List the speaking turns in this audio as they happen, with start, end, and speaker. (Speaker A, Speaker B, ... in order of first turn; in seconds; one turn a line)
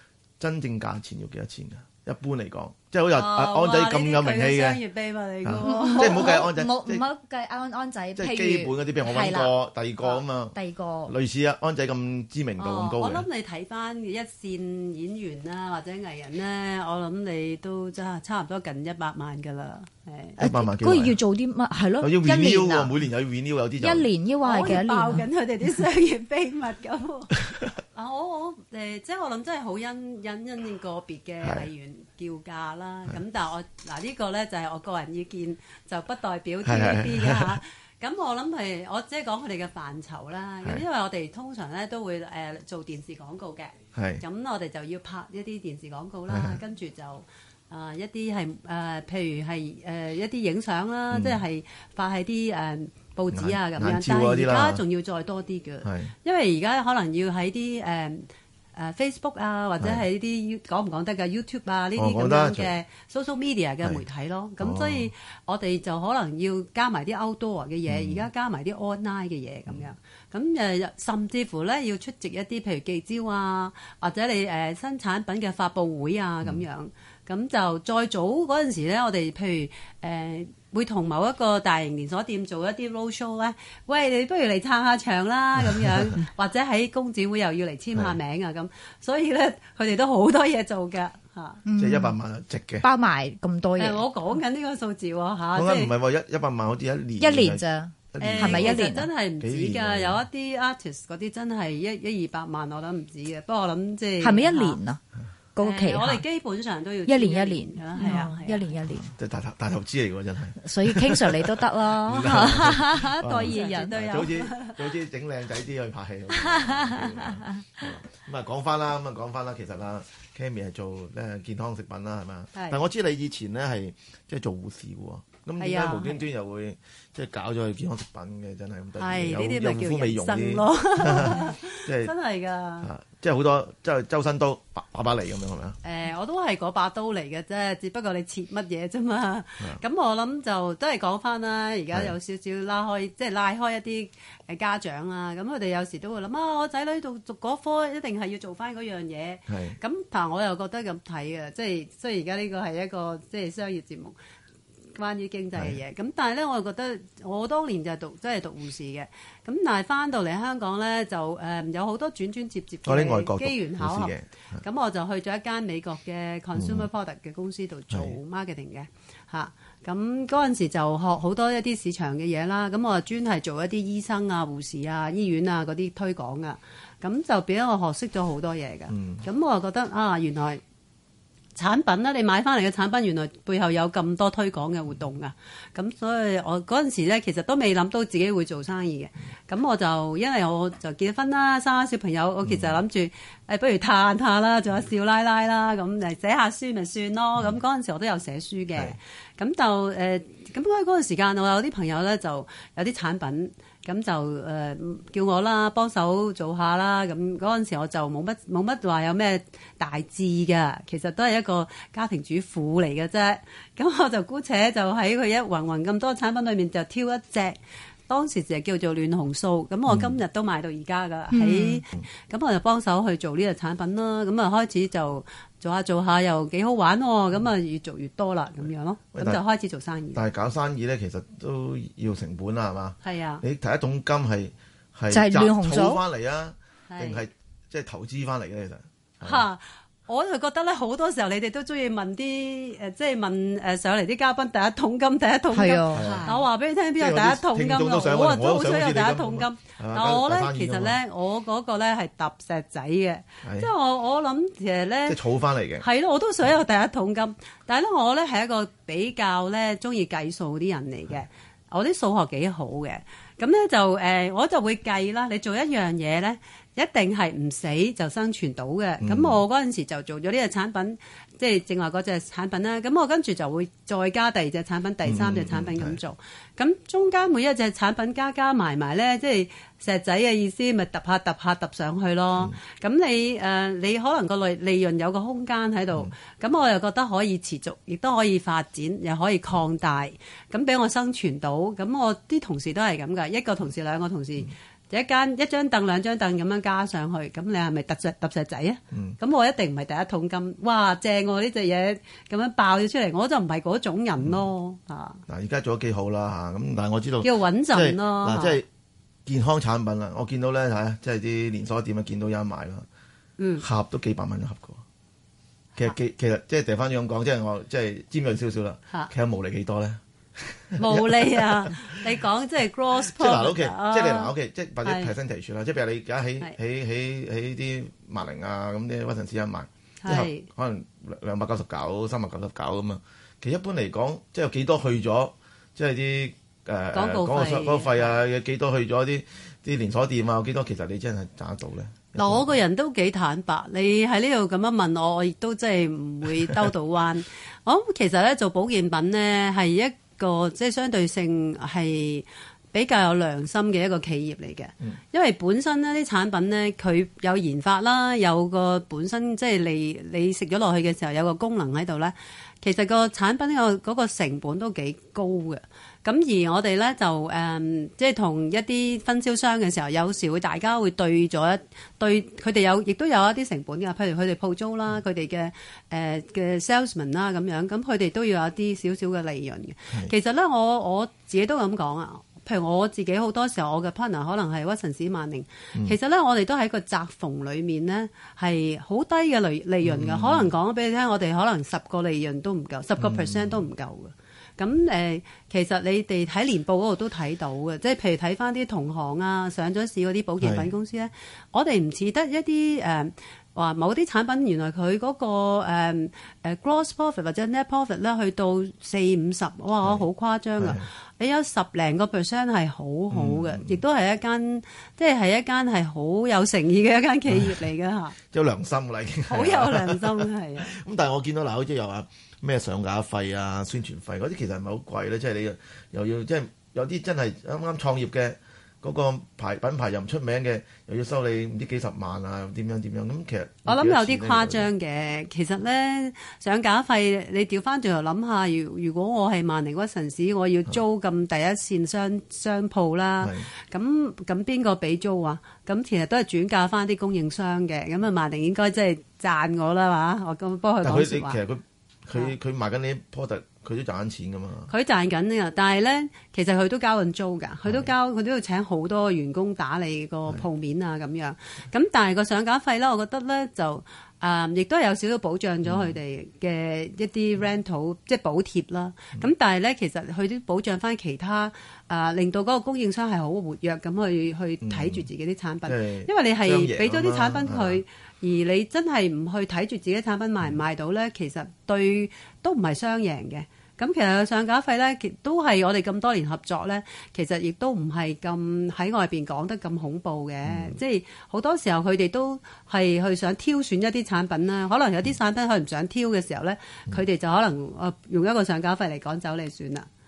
Speaker A: 0.4-4.8
Speaker B: 3.1-6.4
Speaker A: 5.4-7.0
Speaker C: 5.6-9.5
Speaker A: 8.2-10.6
Speaker C: 10.5-11.1
Speaker A: 11.1-13.2
Speaker B: 12.6-20.4
Speaker A: 20.4-21.2
Speaker C: 20.4-22.9
Speaker A: 22.0-24.1
Speaker C: 23.8-25.2
Speaker B: 24.4-27.4
Speaker B: 27.9-91.6
Speaker A: 31.4-31.7
Speaker A: 36.6-37.6
Speaker A: 43.9-44.2
Speaker A: 46.3-46.6
Speaker A: 51.1-51.4
Speaker A: 53.3-54.8
Speaker A: 55.8-56.1
Speaker A: 62.0-62.7
Speaker A: 64.6-65.1
Speaker A: 67.9-68.2
Speaker A: 85.6-86.2
Speaker C: 91.6-92.1
Speaker A: 91.8-92.8
Speaker C: 92.8-94.0
Speaker B: 93.8-95.9
Speaker A: 95.5-98.9
Speaker C: 97.2-99.1
Speaker B: 98.2-104.8
Speaker A: 99.4-100.2
Speaker C: 104.2-105.0
Speaker C: 105.5-106.2
Speaker B: 105.6-108.7
Speaker C: 107.1-109.1
Speaker A: 109.2-132.1
Speaker C: 110.6-113.9
Speaker B: 113.4-114.8
Speaker C: 116.4-117.8
Speaker B: 122.5-122.8
Speaker B: 125.6-126.2
Speaker B: 129.0-132.9
Speaker A: 132.8-135.8
Speaker B: 135.8-154.2
Speaker A: 149.5-149.8
Speaker B: 154.9-180.6
Speaker A: 162.8-164.6
Speaker A: 166.6-166.9
Speaker A: 167.9-168.2
Speaker A: 178.9-179.2
Speaker B: 181.6-230.3
Speaker A: 192.4-192.8
Speaker A: 219.9-220.2
Speaker C: 221.3-221.8
Speaker A: 229.1-229.4
Speaker A: 230.1-239.4
Speaker B: 233.0-233.4
Speaker C: 235.1-236.0
Speaker B: 236.9-237.2
Speaker B: 239.2-255.2
Speaker C: 245.5-246.3
Speaker A: 245.9-246.4
Speaker A: 247.0-251.0
Speaker A: 253.4-253.7
Speaker A: 255.1-255.8
Speaker B: 255.8-305.2
Speaker A: 269.0-269.4
Speaker A: 275.0-276.0
Speaker A: 298.9-299.2
Speaker A: 305.3-308.6
Speaker B: 307.2-308.6
Speaker A: 309.2-312.9
Speaker B: 313.4-313.6
Speaker A: 313.6-314.8
Speaker A: 315.8-322.1
Speaker B: 320.8-325.1
Speaker A: 323.0-342.5
Speaker B: 330.0-330.5
Speaker B: 336.9-338.2
Speaker B: 342.1-418.1
Speaker A: 389.8-390.5
Speaker A: 393.0-393.6
Speaker A: 400.4-400.7
Speaker A: 410.6-410.9
Speaker A: 413.1-413.8
Speaker A: 417.3-417.6
Speaker A: 418.3-434.7
Speaker B: 419.3-420.8
Speaker B: 433.6-451.4
Speaker A: 443.2-443.5
Speaker A: 450.8-454.7
Speaker B: 454.7-499.9
Speaker A: 457.6-457.9
Speaker A: 465.6-466.0
Speaker A: 474.6-475.1
Speaker A: 475.6-477.8
Speaker A: 490.4-490.8